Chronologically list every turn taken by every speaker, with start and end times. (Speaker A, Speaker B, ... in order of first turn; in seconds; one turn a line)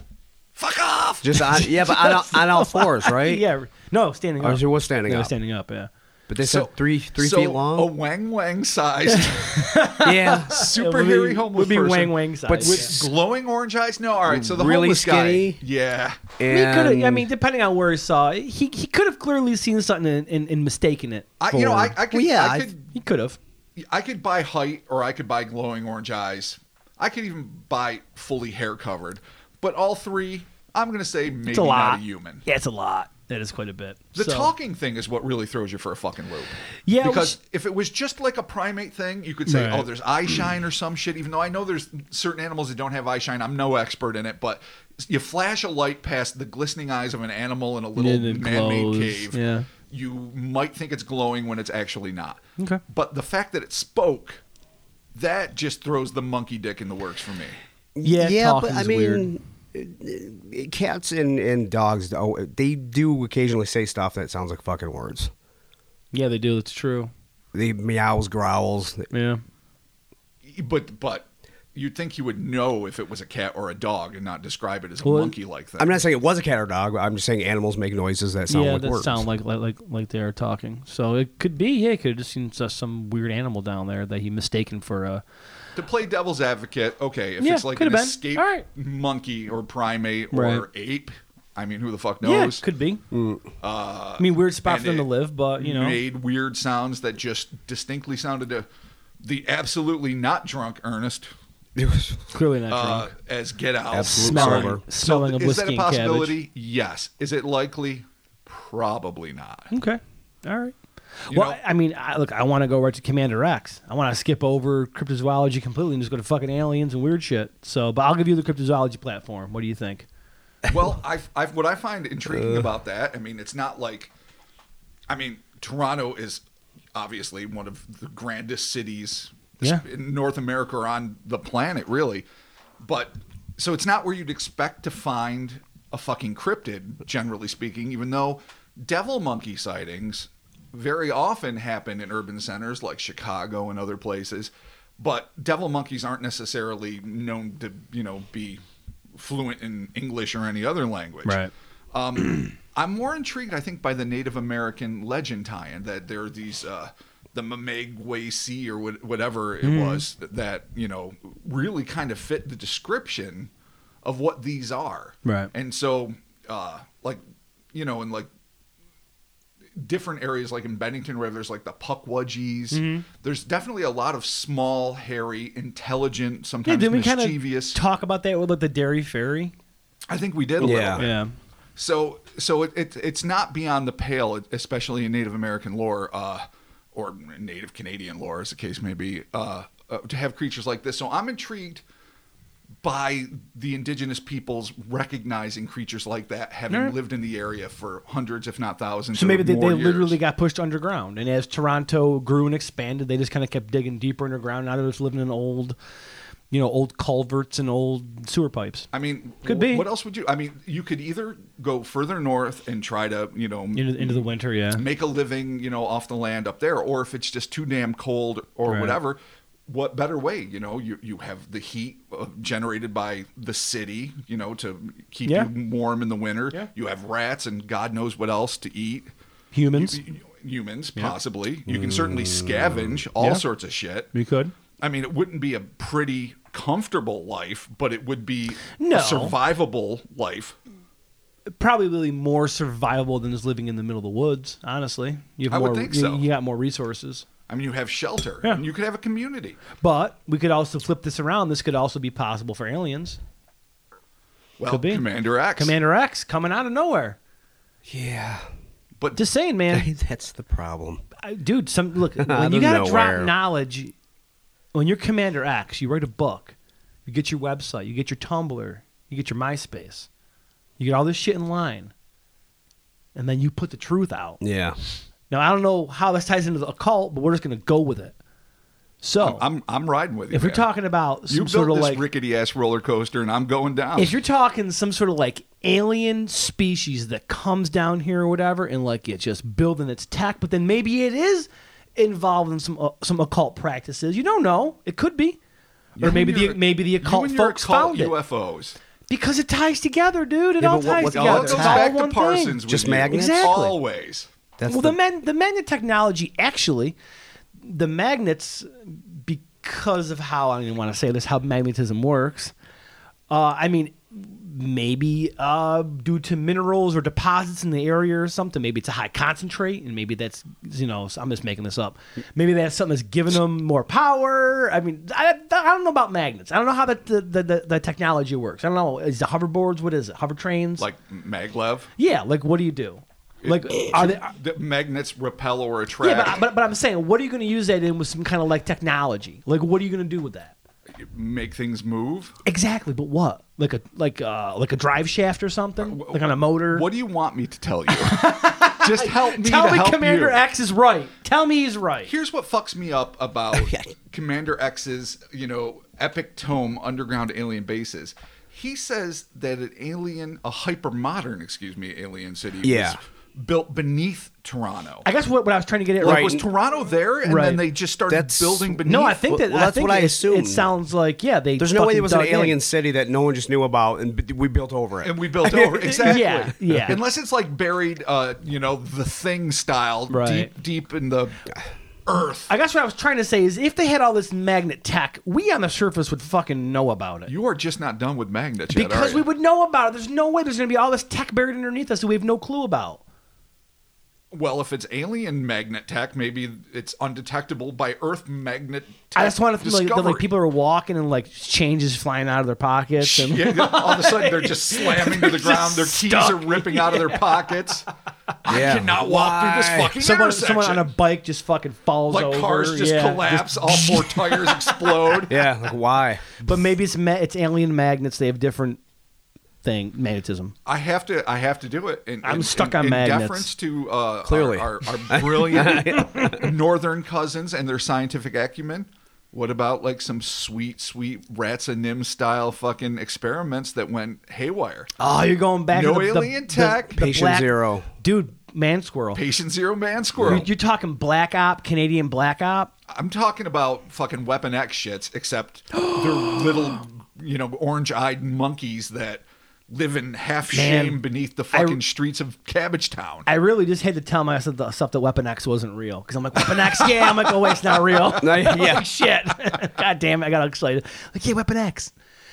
Speaker A: 0.6-1.7
Speaker B: 1.2-3.4
Speaker C: 1.8-5.9
Speaker B: 4.4-5.3
Speaker B: 6.3-7.9
Speaker A: 6.4-9.8
Speaker C: 9.1-12.9
Speaker B: 10.0-10.7
Speaker A: 10.5-16.2
Speaker B: 12.5-13.1
Speaker B: 14.3-15.6
Speaker B: 16.4-17.3
Speaker C: 16.5-21.4
Speaker A: 21.4-22.9
Speaker B: 21.5-22.7
Speaker C: 22.9-23.4
Speaker A: 23.8-32.4
Speaker C: 31.5-34.5
Speaker A: 34.1-54.4
Speaker C: 36.9-37.4
Speaker C: 39.5-39.9
Speaker C: 48.0-49.7
Speaker A: 55.1-57.6
Speaker B: 58.0-65.3
Speaker C: 58.0-59.3
Speaker C: 66.1-67.1
Speaker B: 67.5-69.1
Speaker C: 69.1-69.4
Speaker A: 70.4-76.0
Speaker C: 75.0-75.3
Speaker B: 75.8-79.2
Speaker C: 78.5-85.2
Speaker A: 85.8-92.6
Speaker C: 87.4-88.6
Speaker C: 90.3-90.6
Speaker C: 92.2-93.0
Speaker B: 93.1-93.5
Speaker A: 93.6-98.7
Speaker C: 94.2-96.0
Speaker A: 99.2-101.3
Speaker B: 101.8-102.2
Speaker C: 102.3-103.1
Speaker A: 102.7-109.7
Speaker B: 103.9-104.8
Speaker C: 104.0-106.3
Speaker C: 109.7-120.0
Speaker A: 111.3-111.6
Speaker A: 120.7-124.1
Speaker B: 122.3-122.7
Speaker A: 125.1-126.4
Speaker A: 126.9-132.2
Speaker A: 132.8-148.6
Speaker A: 149.2-151.4
Speaker C: 151.2-151.5
Speaker A: 151.9-163.5
Speaker C: 159.6-160.0
Speaker A: 164.0-167.2
Speaker C: 165.2-165.5
Speaker A: 167.7-168.3
Speaker A: 169.8-177.8
Speaker C: 172.7-173.1
Speaker C: 176.6-179.5
Speaker A: 180.1-181.2
Speaker B: 180.6-181.0
Speaker C: 180.6-181.3
Speaker A: 181.8-191.8
Speaker A: 192.8-200.2
Speaker C: 196.7-196.9
Speaker C: 199.1-205.8
Speaker C: 206.5-208.9
Speaker A: 208.9-229.1
Speaker C: 209.4-209.8
Speaker C: 213.7-214.8
Speaker C: 218.7-219.0
Speaker C: 225.2-225.5
Speaker C: 229.5-230.0
Speaker A: 229.7-234.1
Speaker B: 231.7-233.0
Speaker C: 233.2-233.4
Speaker C: 234.1-234.5
Speaker A: 234.8-240.6
Speaker C: 238.8-239.3
Speaker C: 241.5-247.2
Speaker A: 245.5-246.3
Speaker A: 247.5-249.6
Speaker C: 249.8-253.2
Speaker A: 254.6-255.7
Speaker C: 254.7-255.0
Speaker C: 255.6-257.2
Speaker B: 257.9-258.5
Speaker C: 259.1-259.9
Speaker B: 259.7-261.0
Speaker C: 261.2-263.9
Speaker B: 262.2-263.3
Speaker C: 264.7-266.5
Speaker C: 267.1-270.1
Speaker C: 270.8-271.9
Speaker C: 273.1-274.4
Speaker B: 274.4-274.8
Speaker C: 275.3-278.1
Speaker C: 279.0-279.4
Speaker A: 279.2-280.7
Speaker C: 280.3-282.0
Speaker A: 281.3-284.1
Speaker C: 283.9-295.4
Speaker A: 296.0-298.8
Speaker C: 296.0-298.1
Speaker C: 299.1-303.8
Speaker B: 300.6-301.9
Speaker A: 301.0-304.3
Speaker B: 302.7-303.5
Speaker B: 304.6-305.0
Speaker C: 304.7-306.9
Speaker C: 307.6-312.5
Speaker C: 313.3-330.9
Speaker A: 330.8-331.9
Speaker C: 332.0-334.3
Speaker A: 333.4-336.4
Speaker C: 336.0-340.5
Speaker A: 341.0-342.3
Speaker C: 342.4-346.9
Speaker A: 345.8-350.4
Speaker C: 347.9-352.1
Speaker A: 352.1-365.1
Speaker B: 353.5-353.9
Speaker B: 362.6-363.0
Speaker C: 365.0-366.5
Speaker A: 366.0-369.2
Speaker B: 366.0-366.4
Speaker C: 367.2-367.6
Speaker B: 368.1-370.7
Speaker C: 368.9-372.6
Speaker B: 371.6-376.9
Speaker A: 375.0-381.4
Speaker C: 375.8-377.0
Speaker C: 380.1-380.5
Speaker A: 382.1-382.5
Speaker C: 382.5-387.3
Speaker A: 387.3-389.2
Speaker C: 388.7-393.0
Speaker A: 394.3-400.3
Speaker C: 399.1-407.5
Speaker A: 403.0-407.9
Speaker A: 408.4-410.9
Speaker B: 408.5-409.9
Speaker C: 409.9-415.2
Speaker A: 412.1-415.4
Speaker B: 415.3-416.4
Speaker C: 416.4-418.8
Speaker C: 419.6-420.5
Speaker A: 420.6-434.9
Speaker C: 422.2-423.5
Speaker B: 424.2-426.4
Speaker C: 425.9-426.4
Speaker C: 435.0-439.2
Speaker A: 435.7-437.1
Speaker B: 436.9-437.9
Speaker A: 439.1-440.5
Speaker B: 440.2-440.4
Speaker C: 440.2-442.7
Speaker A: 442.9-453.3
Speaker C: 445.8-446.6
Speaker C: 450.5-451.0
Speaker C: 451.5-451.8
Speaker C: 453.2-461.9
Speaker B: 458.2-458.9